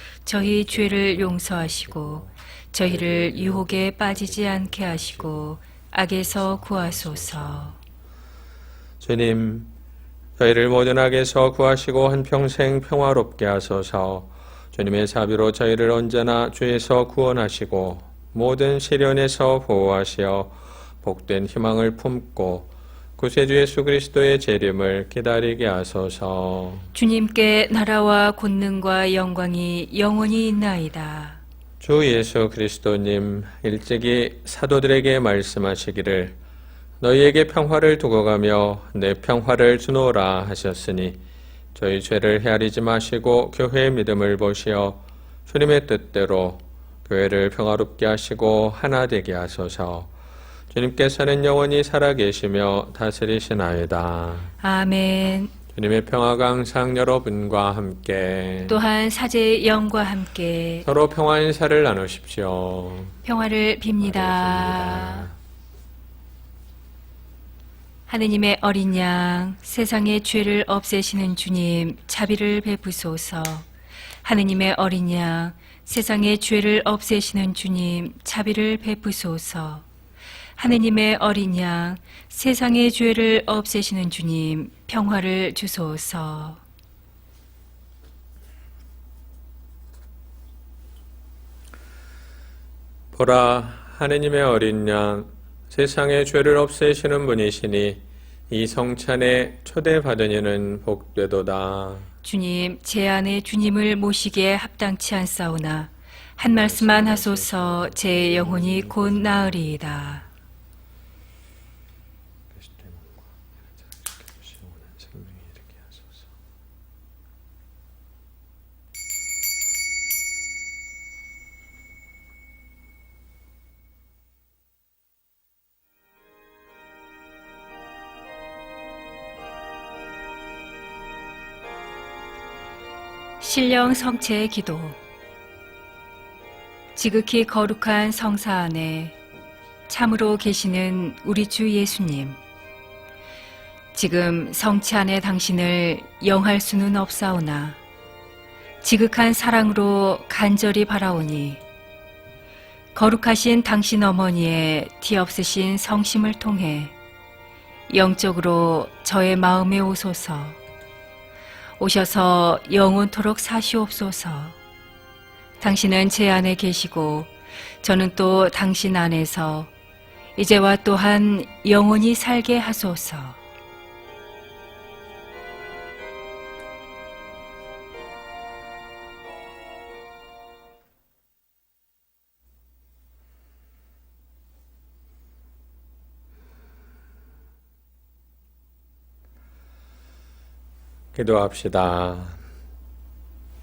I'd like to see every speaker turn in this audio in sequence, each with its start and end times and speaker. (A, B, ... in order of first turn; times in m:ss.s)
0:00.2-0:07.8 A
0:00.4-0:02.3 B
0:02.8-0:05.6 B
0:06.2-0:07.8 B
0:09.0-0:09.7 B
0:10.4-0:26.9 B
0:26.9-0:31.4 A
0:31.8-0:36.4 B
0:37.0-0:41.2 B
0:41.7-0:50.1 B
0:50.7-0:54.5 B
0:54.6-0:55.5 A
0:55.7-0:58.8 B
0:58.7-1:00.9 A
1:00.8-1:03.2 B
1:03.2-1:05.3 A
1:04.0-1:05.4 B
1:08.1-1:13.6 A
1:14.2-1:19.9 A
1:20.6-1:26.6 A
1:33.1-1:42.1 B
1:42.2-1:50.2 A
1:46.4-1:50.2 B
1:52.5-1:53.2 B
1:53.8-1:56.3 B
2:13.4-2:15.0 A
2:17.0-2:19.2 A
2:19.9-2:22.4 A
2:23.9-2:27.8 A
2:28.8-2:31.6 A
2:32.9-2:36.9 A
2:37.9-2:40.6 A
2:41.8-2:44.6 A
2:45.6-2:47.3 A
2:47.8-2:49.7 A
2:50.4-2:53.4 A
3:11.1-3:12.4 B